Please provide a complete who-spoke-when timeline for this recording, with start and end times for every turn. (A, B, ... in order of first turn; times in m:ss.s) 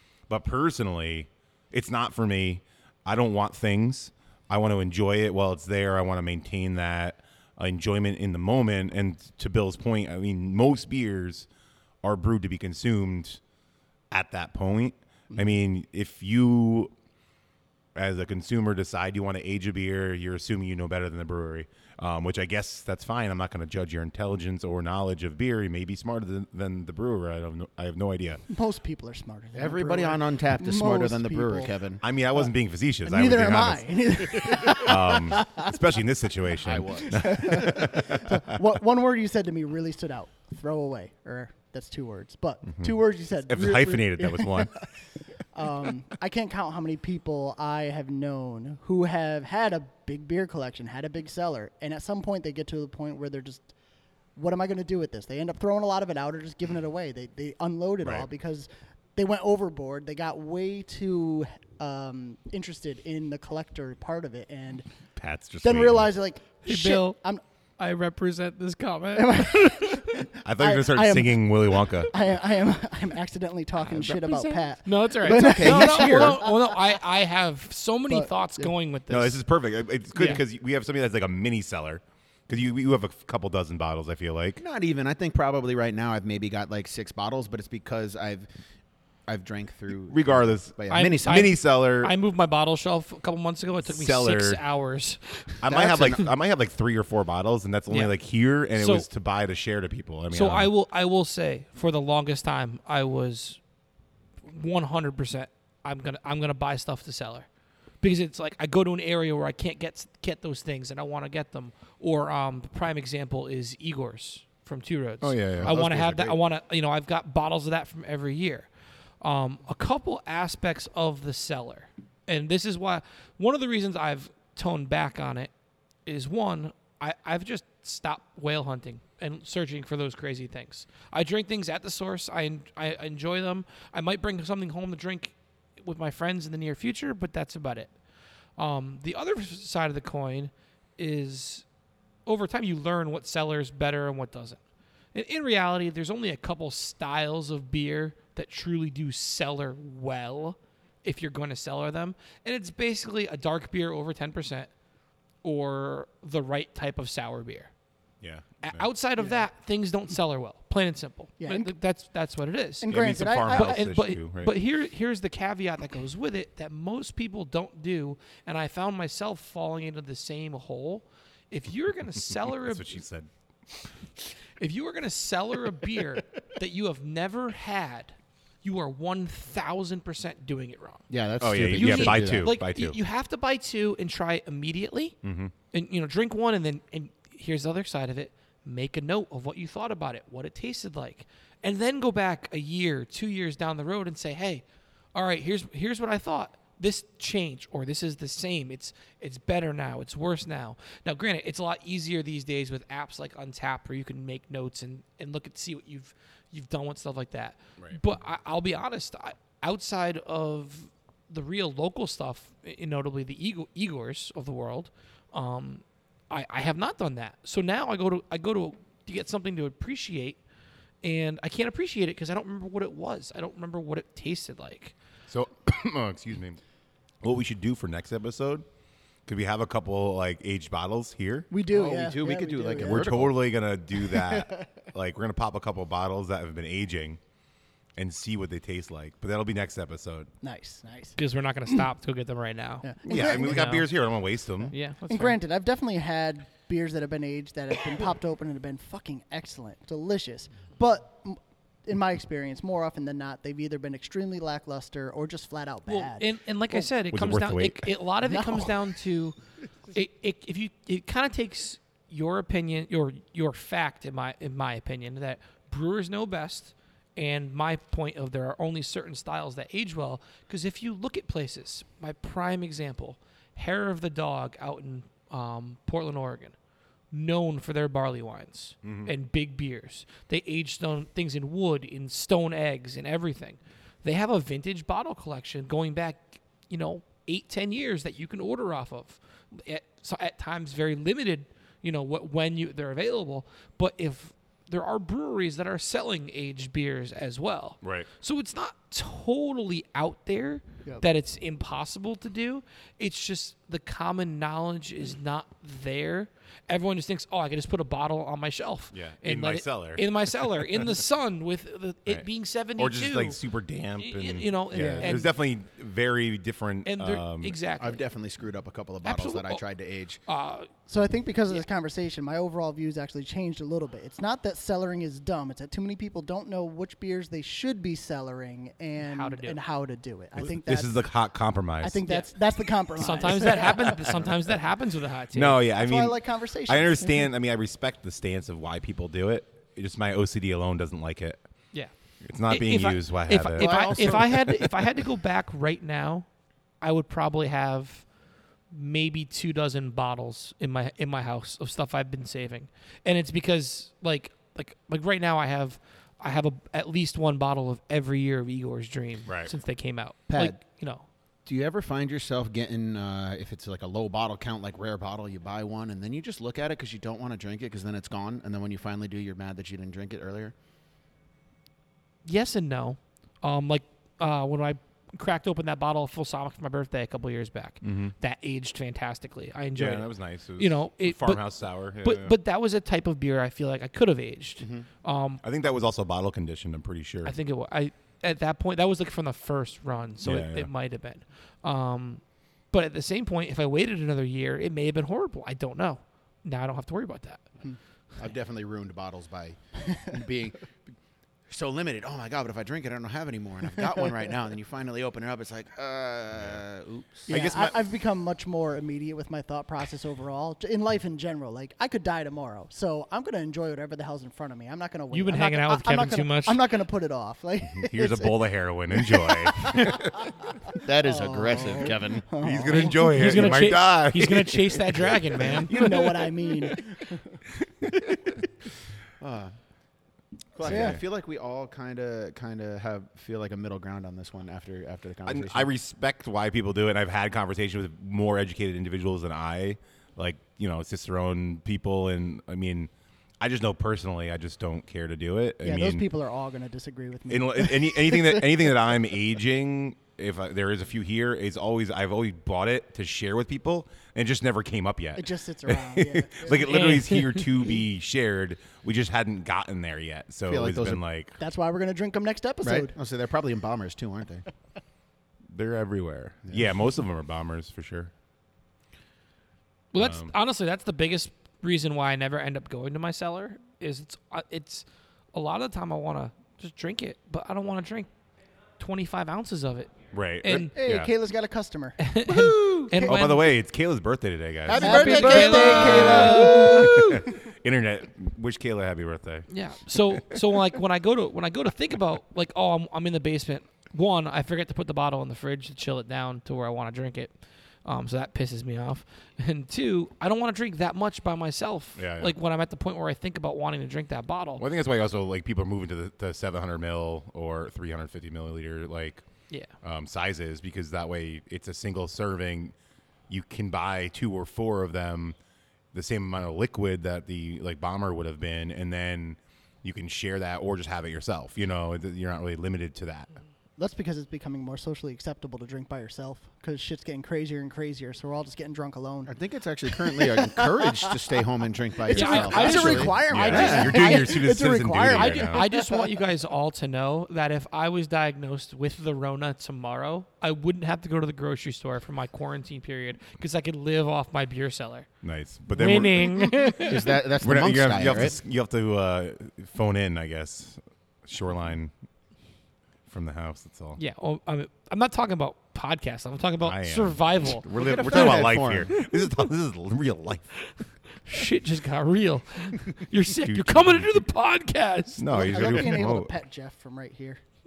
0:00.3-0:11.5 A
0:12.0-0:13.4 A
0:14.1-0:16.9 A
0:17.9-0:28.4 A
0:28.5-0:31.7 B
0:29.5-0:32.0 C
0:32.0-0:38.4 A
0:33.0-0:35.7 B
0:36.6-0:37.3 C
0:37.1-0:44.9 B
0:42.7-0:43.0 A
0:43.5-0:44.8 A
0:45.5-0:53.7 B
0:54.4-1:04.9 B
0:58.0-0:58.3 A
1:05.2-1:06.1 A
1:05.6-1:07.4 B
1:06.6-1:07.2 D
1:07.8-1:10.2 D
1:09.1-1:16.6 B
1:10.4-1:12.1 A
1:14.3-1:19.4 D
1:15.2-1:16.4 C
1:18.1-1:18.7 B
1:19.1-1:24.6 A
1:20.1-1:20.4 D
1:24.6-1:28.5 C
1:29.3-1:31.5 C
1:30.1-1:32.1 A
1:30.9-1:36.2 D
1:33.8-1:34.6 A
1:35.6-1:40.7 A
1:35.7-1:36.2 C
1:38.7-1:39.1 D
1:40.3-1:43.6 D
1:44.4-1:47.5 D
1:48.0-1:58.7 D
1:55.2-1:55.8 A
1:55.6-1:56.4 C
1:59.2-2:05.5 D
2:06.0-2:17.9 D
2:18.6-2:21.6 D
2:22.2-2:24.6 D
2:25.1-2:34.7 D
2:35.4-2:37.7 D
2:38.2-2:38.9 A
2:38.6-2:42.9 D
2:41.4-2:41.7 B
2:42.8-2:43.9 B
2:42.9-2:44.5 A
2:43.5-2:52.8 D
2:52.6-2:53.3 A
2:54.6-3:01.0 D
3:01.1-3:02.5 C
3:01.4-3:03.0 A
3:01.6-3:05.2 D
3:05.2-3:05.5 A
3:05.7-3:40.4 D
3:41.0-3:44.9 D
3:45.3-3:46.6 A
3:47.2-3:48.6 A
3:49.2-3:51.5 A
3:51.5-3:53.2 B
3:51.7-3:53.4 C
3:52.8-3:57.2 A
3:54.0-3:54.7 B
3:58.0-4:00.3 A
4:00.4-4:01.8 B
4:01.2-4:03.9 D
4:02.8-4:03.8 B
4:03.0-4:04.7 A
4:04.7-4:05.4 D
4:05.1-4:16.9 B
4:15.9-4:19.4 D
4:17.1-4:17.9 A
4:18.2-4:18.8 B
4:19.9-4:36.6 D
4:37.1-5:13.4 D
4:38.8-4:39.1 A
4:57.8-4:58.1 A
5:08.9-5:10.8 A
5:12.1-5:17.6 A
5:14.0-5:15.3 D
5:14.7-5:15.2 B
5:16.8-5:18.0 D
5:17.8-5:20.2 C
5:19.0-5:19.6 D
5:20.2-5:20.7 D
5:20.9-5:31.0 B
5:29.0-5:29.6 D
5:30.4-5:32.0 A
5:31.8-5:34.1 B
5:33.0-5:35.6 D
5:33.8-5:34.2 A
5:35.3-5:41.4 A
5:35.7-5:37.3 B
5:42.2-5:44.6 A
5:42.5-5:46.3 D
5:43.6-5:44.6 C
5:46.8-5:48.0 D
5:48.7-6:01.0 D
5:59.2-5:59.5 A
6:00.3-6:00.6 C
6:01.4-6:10.5 C
6:12.2-6:25.4 D
6:17.8-6:18.1 A
6:19.7-6:22.3 A
6:24.6-6:24.9 C
6:25.4-6:27.3 A
6:27.2-6:37.5 D
6:30.2-6:30.7 A
6:38.2-6:40.9 C
6:41.5-6:47.4 C
6:47.3-7:00.0 B
6:47.3-6:47.7 A
6:55.1-6:56.6 D
6:57.7-7:00.3 A
7:00.8-7:03.6 B
7:00.8-7:02.2 C
7:02.4-7:06.7 A
7:02.7-7:05.9 D
7:05.7-7:07.4 B
7:07.8-7:08.4 A
7:09.2-7:09.6 C
7:10.5-7:15.7 C
7:10.6-7:11.0 B
7:10.6-7:11.0 A
7:15.2-7:26.0 A
7:25.6-7:28.7 B
7:27.3-7:41.4 A
7:35.2-7:37.0 B
7:36.6-7:37.4 D
7:40.5-7:41.0 C
7:41.4-7:42.9 B
7:42.6-7:44.4 C
7:45.5-7:48.1 A
7:49.9-7:58.1 D
7:50.0-7:50.3 A
7:58.8-8:00.7 D
8:00.1-8:01.1 A
8:00.5-8:02.0 B
8:02.0-8:03.5 D
8:02.2-8:03.2 C
8:03.0-8:09.5 A
8:04.6-8:06.8 C
8:04.7-8:06.9 D
8:04.8-8:07.3 B
8:09.5-8:24.6 D
8:22.0-8:22.3 A
8:24.6-8:29.2 A
8:29.8-8:32.7 A
8:33.3-8:35.4 A
8:35.9-8:43.3 A
8:43.8-8:49.3 B
8:49.2-8:54.0 C
8:49.9-8:51.1 B
8:52.0-8:56.1 B
8:52.1-8:54.3 D
8:52.6-8:55.6 A
8:55.0-9:05.1 D
9:05.2-9:06.4 A
9:05.7-9:07.1 D
9:06.8-9:08.4 C
9:07.4-9:11.9 A
9:13.1-9:14.0 A
9:14.0-9:18.4 D
9:16.6-9:20.7 A
9:17.7-9:18.9 C
9:21.2-9:25.5 D
9:23.4-9:24.2 A
9:25.2-9:26.3 A
9:25.3-9:27.4 B